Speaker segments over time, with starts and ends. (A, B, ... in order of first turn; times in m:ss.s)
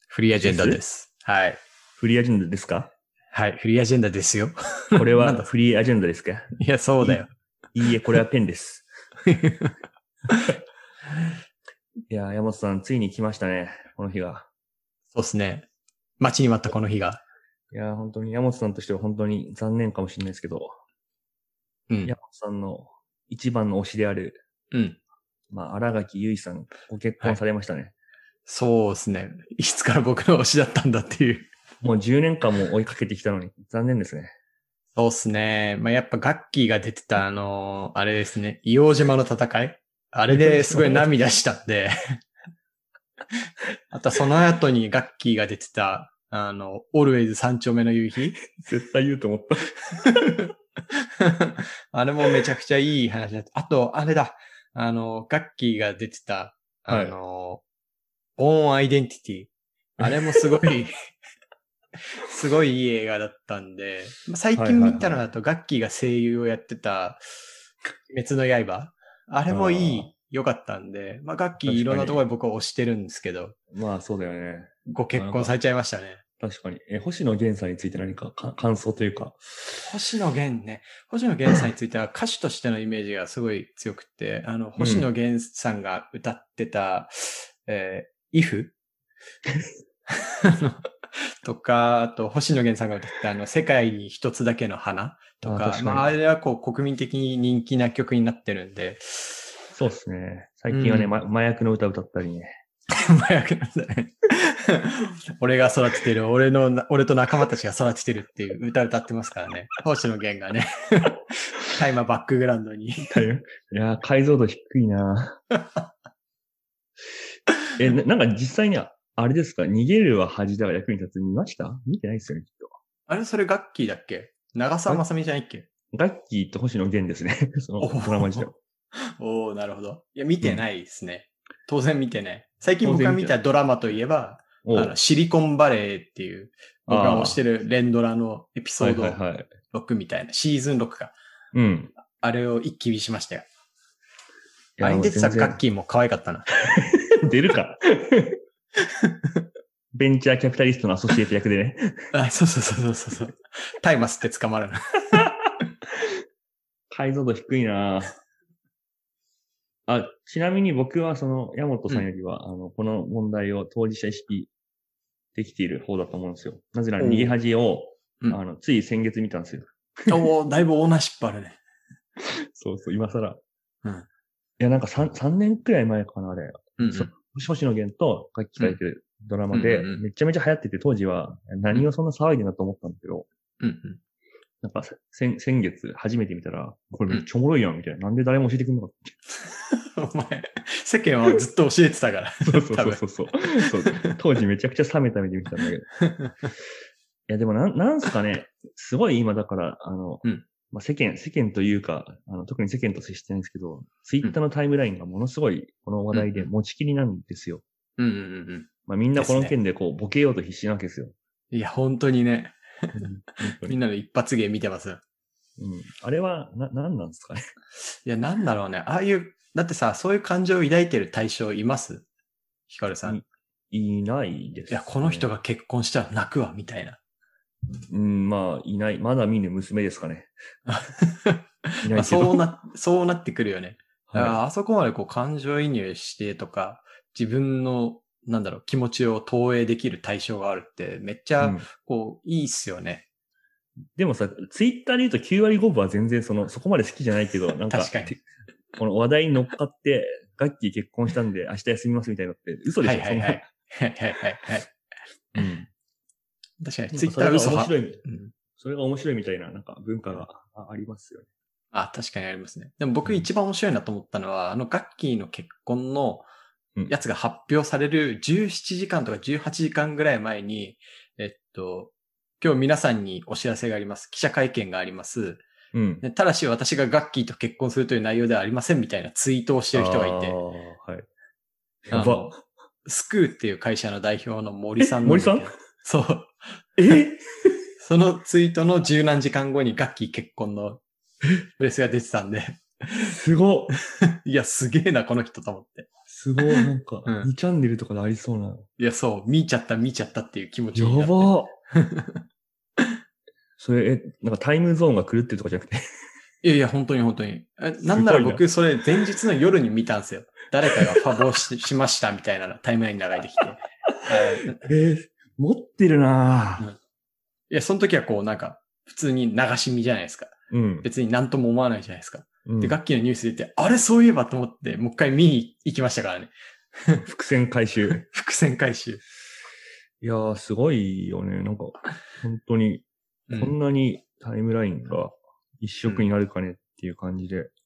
0:00.1-0:01.6 A
0:00.3-0:00.8 B
0:02.0-0:02.9 B
0:03.3-0:05.5 A
0:05.0-0:06.5 B
0:06.6-0:07.3 A
0:07.8-0:08.9 B
0:09.3-0:09.8 A
0:10.3-0:10.6 A
0:12.1-0:14.5 B
0:15.1-0:15.7 A
0:16.2-0:17.2 A
0:17.7-0:20.7 B
0:22.0-0:24.4 B
0:24.7-0:25.0 A
0:25.5-0:27.9 B
0:28.5-0:31.5 A
0:31.8-0:34.3 B
0:35.0-0:42.0 A
0:40.4-0:41.0 B
0:43.9-0:48.4 A
0:48.5-0:50.2 B
0:50.1-0:57.6 A
0:56.9-0:57.2 B
0:58.4-1:00.9 A
1:00.0-1:00.5 B
1:02.1-1:07.2 A
1:04.6-1:05.2 B
1:08.1-1:13.6 A
1:09.5-1:10.1 B
1:11.6-1:12.2 B
1:13.7-1:15.5 B
1:14.9-1:16.2 A
1:16.4-1:19.9 B
1:19.8-1:28.8 A
1:24.8-1:25.1 B
1:30.1-1:39.5 A
1:35.4-1:36.2 B
1:39.8-1:42.5 B
1:40.7-1:41.1 A
1:42.9-1:53.2 A
1:53.0-1:55.4 B
1:57.8-2:02.7 B
2:03.1-2:05.7 A
2:05.9-2:08.6 B
2:07.8-2:08.5 A
2:09.1-2:19.2 A
2:12.8-2:13.4 B
2:14.6-2:14.9 B
2:16.9-2:17.4 B
2:18.8-2:19.5 B
2:19.7-2:21.2 A
2:21.5-2:21.9 B
2:22.2-2:23.5 A
2:24.8-2:25.6 B
2:24.8-2:26.6 A
2:26.7-2:28.4 B
2:28.9-2:29.4 A
2:29.9-2:31.9 B
2:32.1-2:35.3 A
2:36.9-2:38.2 B
2:39.9-2:44.5 B
2:45.4-2:50.2 B
2:47.0-2:47.4 A
2:50.1-2:51.6 A
2:52.2-2:53.4 B
2:54.6-3:03.3 B
2:56.8-2:57.1 A
2:59.5-3:00.0 A
3:03.6-3:04.0 A
3:04.6-3:09.2 B
3:09.4-3:13.0 A
3:12.4-3:15.9 B
3:13.6-3:14.1 A
3:16.1-3:16.3 A
3:17.3-3:27.6 B
3:26.1-3:26.5 A
3:28.0-3:29.5 A
3:28.9-3:31.1 B
3:31.5-3:33.0 A
3:33.0-3:33.8 B
3:33.6-3:35.0 A
3:35.6-3:37.4 B
3:37.9-3:42.1 A
3:42.7-3:43.2 A
3:43.0-3:45.3 B
3:44.7-3:47.0 A
3:47.9-3:50.3 B
3:50.7-4:03.1 A
3:51.8-3:52.4 B
3:54.1-3:54.4 B
4:01.4-4:01.7 B
4:04.0-4:08.2 B
4:07.7-4:08.2 A
4:08.8-4:13.5 B
4:12.8-4:14.7 A
4:15.4-4:15.7 B
4:16.6-4:18.3 A
4:16.9-4:18.0 B
4:18.6-4:21.3 B
4:21.7-4:26.3 A
4:26.9-4:35.5 A
4:35.7-4:36.0 B
4:36.0-4:40.4 A
4:39.7-4:41.0 B
4:41.9-4:42.4 B
4:41.9-4:42.3 A
4:42.8-4:46.9 A
4:45.0-4:45.5 B
4:46.8-4:47.6 B
4:47.8-4:50.8 A
4:51.6-4:53.1 A
4:53.1-4:53.8 B
4:54.0-4:55.9 A
4:56.1-4:58.6 B
4:56.5-4:57.3 A
4:58.8-5:02.2 A
5:00.8-5:01.5 B
5:03.6-5:05.8 B
5:06.4-5:14.7 A
5:07.9-5:08.4 B
5:14.6-5:16.7 B
5:17.5-5:27.0 A
5:20.5-5:20.9 B
5:22.4-5:22.8 B
5:27.1-5:28.0 B
5:27.9-5:29.0 A
5:30.0-5:37.5 B
5:33.3-5:33.6 A